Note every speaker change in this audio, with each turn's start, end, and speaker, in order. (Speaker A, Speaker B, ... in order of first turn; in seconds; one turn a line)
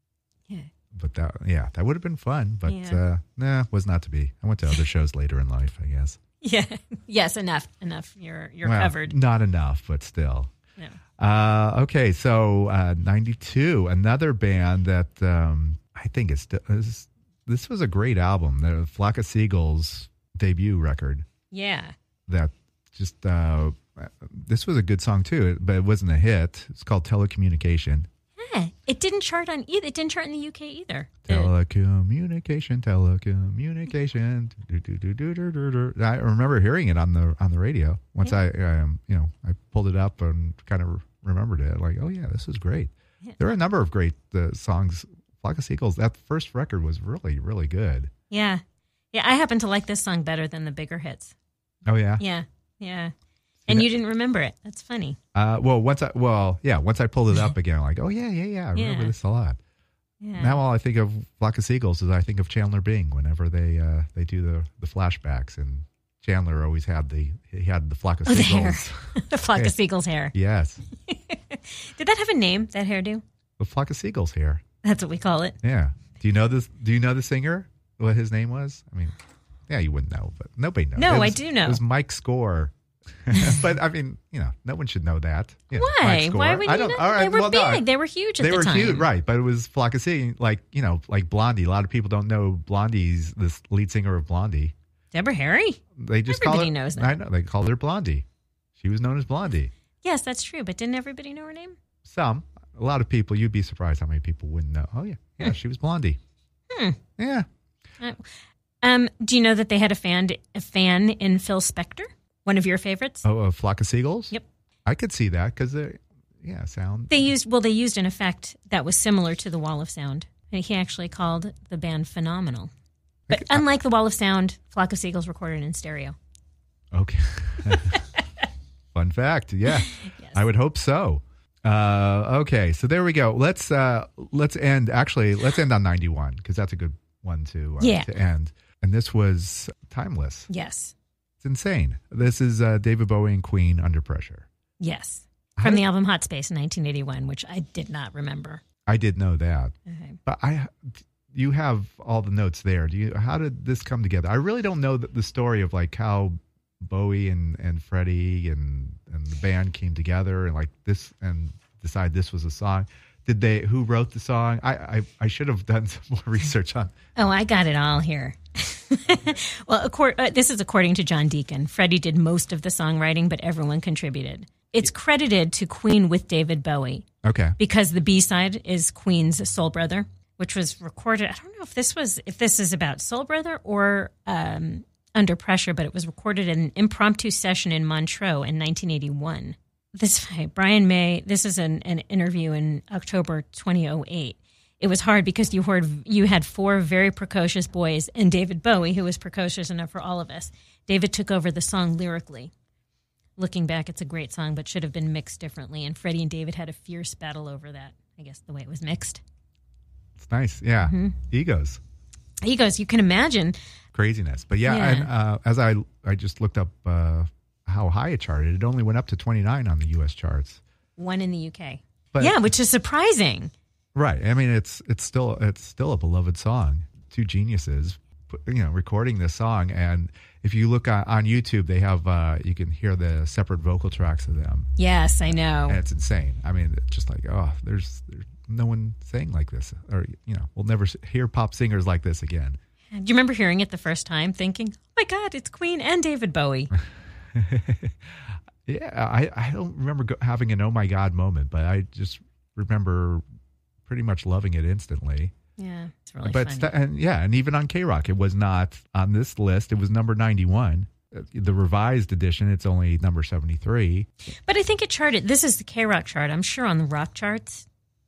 Speaker A: 0.9-6.2
Speaker B: 2.6-3.0
Speaker B: 6.4-9.2
Speaker A: 8.6-10.5
Speaker A: 11.2-21.3
Speaker B: 21.5-21.9
Speaker A: 22.3-28.1
Speaker B: 28.4-31.5
Speaker A: 31.3-48.1
Speaker B: 48.3-51.4
Speaker A: 51.9-52.2
Speaker B: 52.2-53.1
Speaker B: 53.7-55.2
Speaker A: 55.4-59.6
Speaker B: 58.7-59.1
Speaker B: 60.2-60.6
Speaker A: 60.4-69.8
Speaker B: 68.3-70.3
Speaker A: 70.3-70.8
Speaker B: 71.1-73.2
Speaker A: 73.6-74.6
Speaker B: 74.8-75.6
Speaker A: 75.6-79.1
Speaker A: 79.7-87.9
Speaker B: 81.0-81.8
Speaker B: 85.7-89.1
Speaker A: 88.4-94.7
Speaker B: 95.1-97.2
Speaker A: 96.0-98.2
Speaker A: 98.8-99.7
Speaker B: 100.0-101.8
Speaker A: 102.0-106.2
Speaker B: 106.7-107.0
Speaker A: 107.2-107.5
Speaker B: 108.0-113.3
Speaker A: 113.2-114.3
Speaker A: 114.9-117.2
Speaker B: 117.1-122.7
Speaker A: 123.3-123.6
Speaker B: 123.3-126.2
Speaker A: 126.9-128.0
Speaker B: 127.7-128.0
Speaker A: 128.9-140.5
Speaker B: 129.8-130.4
Speaker B: 137.8-138.1
Speaker B: 140.5-140.9
Speaker A: 141.4-144.5
Speaker B: 144.8-148.6
Speaker A: 145.6-145.8
Speaker A: 148.9-166.9
Speaker B: 149.9-150.2
Speaker B: 167.2-177.1
Speaker A: 177.2-177.6
Speaker B: 177.6-202.5
Speaker B: 203.4-209.2
Speaker A: 210.2-211.8
Speaker B: 210.8-211.2
Speaker B: 212.4-213.6
Speaker A: 213.9-220.6
Speaker B: 214.6-215.1
Speaker B: 221.0-223.5
Speaker A: 222.1-222.5
Speaker A: 223.9-234.7
Speaker B: 234.8-235.8
Speaker A: 235.3-242.6
Speaker B: 242.9-246.7
Speaker A: 247.3-253.2
Speaker A: 253.9-255.3
Speaker B: 255.6-256.7
Speaker A: 256.2-264.1
Speaker B: 264.5-267.6